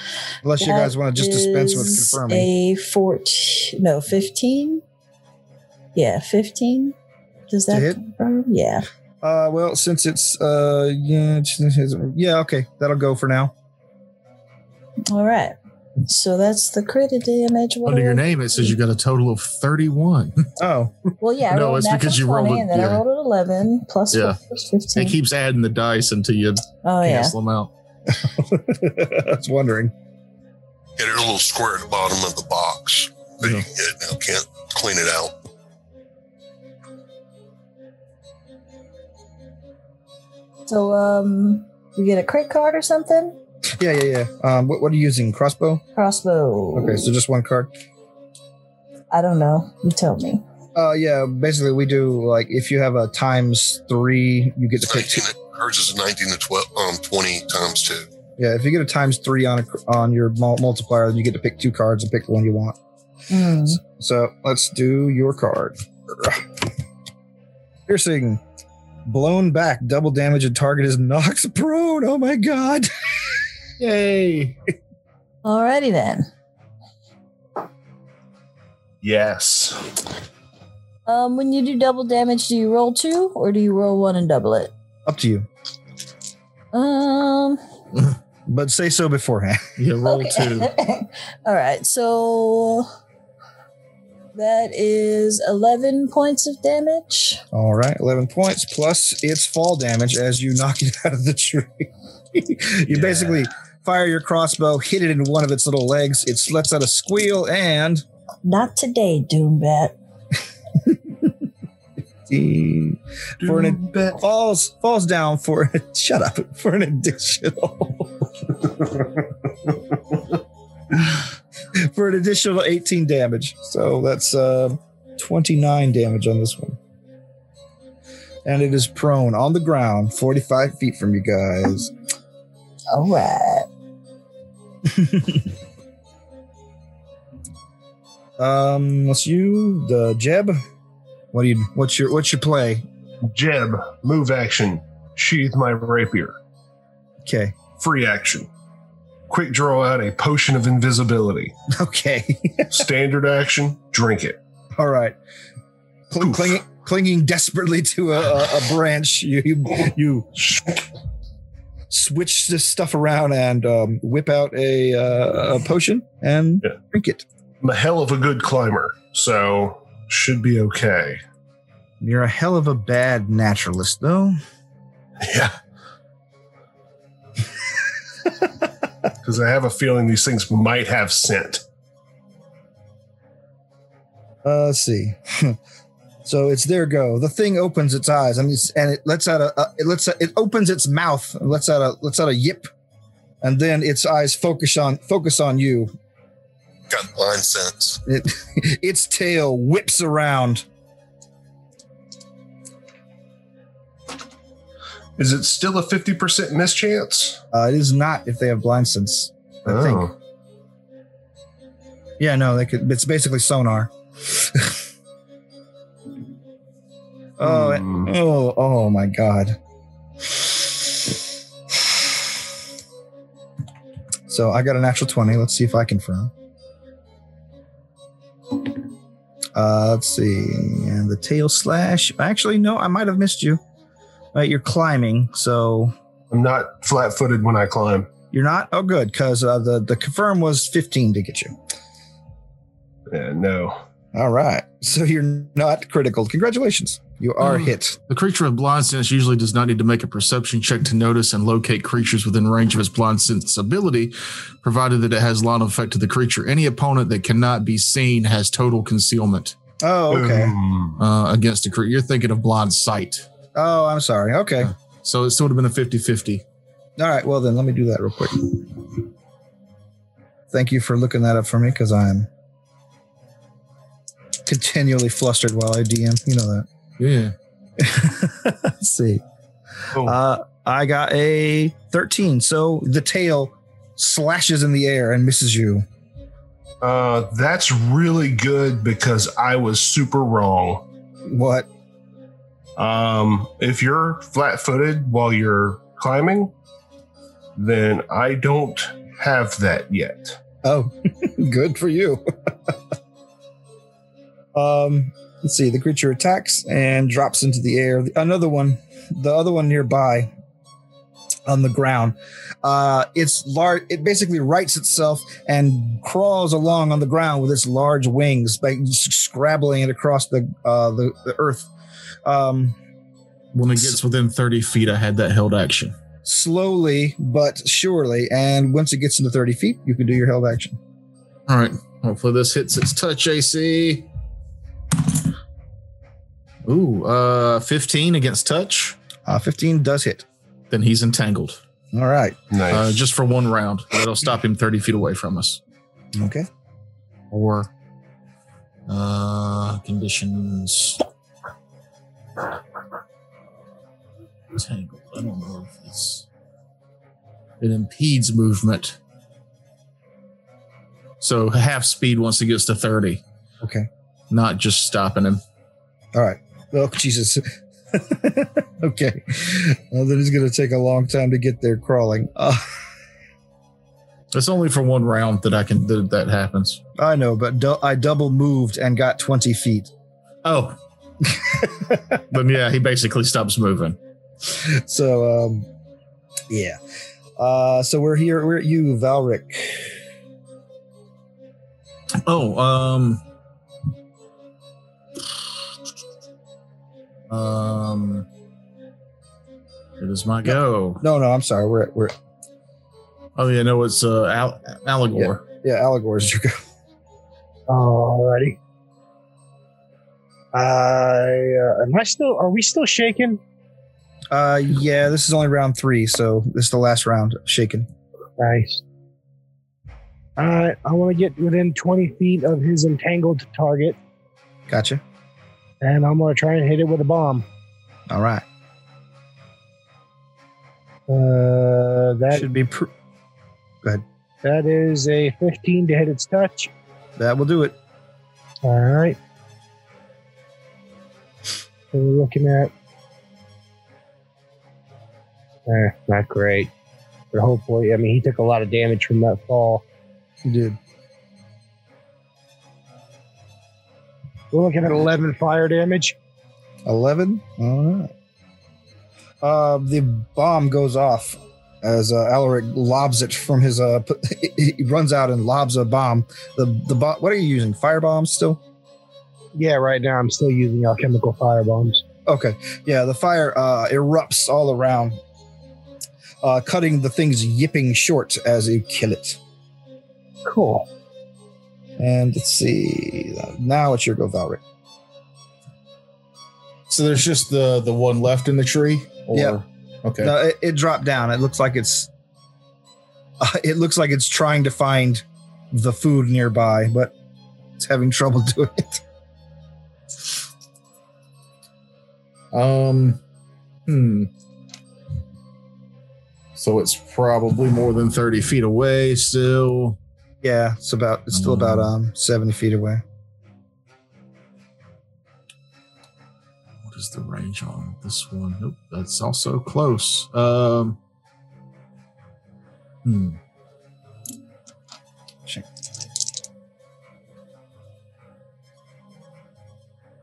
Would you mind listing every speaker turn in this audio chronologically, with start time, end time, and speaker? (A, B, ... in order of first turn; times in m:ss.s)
0:00.4-0:02.5 A
0:00.6-0:04.8 B
0:05.9-0:06.9 B
0:07.5-0:08.8 B
0:07.7-0:08.0 A
0:09.2-0:13.5 A
0:15.1-0:18.7 B
0:17.8-0:20.5 C
0:20.6-0:20.9 A
0:21.2-0:25.2 B
0:21.5-0:23.0 C
0:24.1-0:24.4 C
0:24.9-0:27.7 C
0:26.8-0:27.3 B
0:28.1-0:29.9 A
0:31.0-0:35.3 D
0:40.7-0:43.4 B
0:43.8-0:45.8 A
0:46.0-0:47.1 B
0:46.7-0:47.7 A
0:49.1-0:50.4 B
0:50.7-0:55.2 A
0:54.8-0:58.1 D
0:58.4-1:02.8 A
1:03.3-1:03.8 B
1:03.8-1:06.5 A
1:07.9-1:08.4 A
1:09.0-1:12.9 A
1:13.8-1:14.6 C
1:15.4-1:16.3 B
1:19.0-1:19.8 E
1:21.0-1:24.7 B
1:25.0-1:25.5 A
1:26.7-1:27.6 B
1:28.5-1:29.7 A
1:29.8-1:30.7 C
1:30.0-1:32.9 B
1:34.3-1:37.4 B
1:37.5-1:48.0 A
1:48.4-1:49.9 B
1:50.8-1:51.3 A
1:52.3-1:58.3 A
1:53.4-1:54.2 E
2:01.7-2:06.8 A
2:08.4-2:11.9 A
2:12.9-2:13.7 B
2:14.8-2:15.5 A
2:18.4-2:20.6 A
2:21.3-2:22.8 A
2:23.3-2:26.4 E
2:27.2-2:27.6 A
2:27.8-2:28.5 E
2:29.3-2:31.5 E
2:31.7-2:32.8 A
2:32.7-2:34.4 E
2:34.8-2:35.2 A
2:36.1-2:40.4 A
2:36.2-2:36.5 E
2:41.9-2:47.2 A
2:47.6-2:51.2 E
2:52.0-2:54.4 A
2:55.2-2:55.6 E
2:59.2-3:01.6 E
3:04.4-3:05.6 A
3:06.2-3:12.7 A
3:13.4-3:15.9 A
3:16.9-3:18.0 D
3:18.0-3:20.6 A
3:25.2-3:27.4 E
3:27.5-3:30.1 A
3:29.6-3:30.1 E
3:32.2-3:34.8 A
3:37.4-3:39.6 A
3:37.4-3:38.1 E
3:40.3-3:41.1 A
3:44.3-3:46.3 A
3:49.5-3:53.6 A
3:54.3-3:55.9 A
3:56.3-3:58.1 E
3:58.3-4:01.5 A
4:03.1-4:03.8 E
4:04.1-4:08.0 A
4:08.1-4:19.6 C
4:19.8-4:20.5 A
4:20.1-4:21.0 E
4:21.0-4:23.2 C
4:23.5-4:24.7 A
4:24.6-4:26.4 C
4:27.0-4:28.9 A
4:30.5-4:32.3 A
4:34.4-4:36.6 A
4:37.0-4:37.3 C
4:37.8-4:39.2 A
4:40.0-4:45.8 A
4:46.8-4:50.8 E
4:51.2-4:51.7 A
4:52.8-4:56.5 E
4:57.6-5:00.4 E
5:00.6-5:02.7 A
5:04.5-5:10.3 A
5:11.5-5:21.7 A
5:22.2-5:22.8 A
5:23.5-5:25.9 C
5:26.2-5:30.8 A
5:31.5-5:34.1 C
5:36.6-5:39.0 C
5:39.2-5:40.2 A
5:40.7-5:41.6 C
5:41.9-5:42.4 A
5:42.5-5:43.0 E
5:42.7-5:45.6 C
5:46.2-5:46.5 A
5:47.3-5:47.7 C
5:48.9-5:51.0 C
5:54.5-5:56.2 C
5:57.6-5:59.0 C
6:01.2-6:03.2 C
6:03.6-6:03.9 A
6:04.3-6:05.4 C
6:06.1-6:12.7 A
6:14.3-6:16.8 C
6:17.0-6:19.9 A
6:20.4-6:20.8 C
6:21.3-6:22.0 A
6:22.3-6:24.0 C
6:24.5-6:25.7 A
6:26.5-6:26.8 A
6:27.4-6:30.0 A
6:32.2-6:33.2 C
6:37.3-6:38.3 C
6:40.0-6:41.0 C
6:40.4-6:42.1 A
6:43.4-6:45.4 C
6:45.1-6:46.6 A
6:47.7-6:48.6 F
6:50.5-6:53.4 F
6:54.3-6:57.9 A
6:58.4-6:58.8 F
7:00.4-7:04.0 F
7:04.7-7:05.0 A
7:05.8-7:07.4 F
7:08.1-7:08.4 A
7:11.1-7:12.5 F
7:12.3-7:12.9 A
7:14.4-7:16.7 F
7:17.2-7:17.8 A
7:18.6-7:19.2 F
7:21.9-7:22.7 F
7:25.7-7:26.7 F
7:27.3-7:29.8 F
7:30.4-7:30.8 A
7:34.5-7:36.2 F
7:36.8-7:38.1 A
7:39.4-7:48.6 A
7:49.5-7:52.0 F
7:52.2-7:55.2 A
7:56.4-7:59.4 A
8:00.4-8:00.9 F
8:02.0-8:04.6 A
8:06.9-8:10.3 C
8:09.3-8:09.6 A
8:10.2-8:12.1 A
8:13.4-8:17.1 A
8:17.8-8:19.0 A
8:22.5-8:23.2 C
8:23.8-8:24.3 C
8:26.6-8:30.0 C
8:30.4-8:33.0 A
8:31.3-8:31.9 C
8:36.8-8:41.0 C
8:43.0-8:43.4 C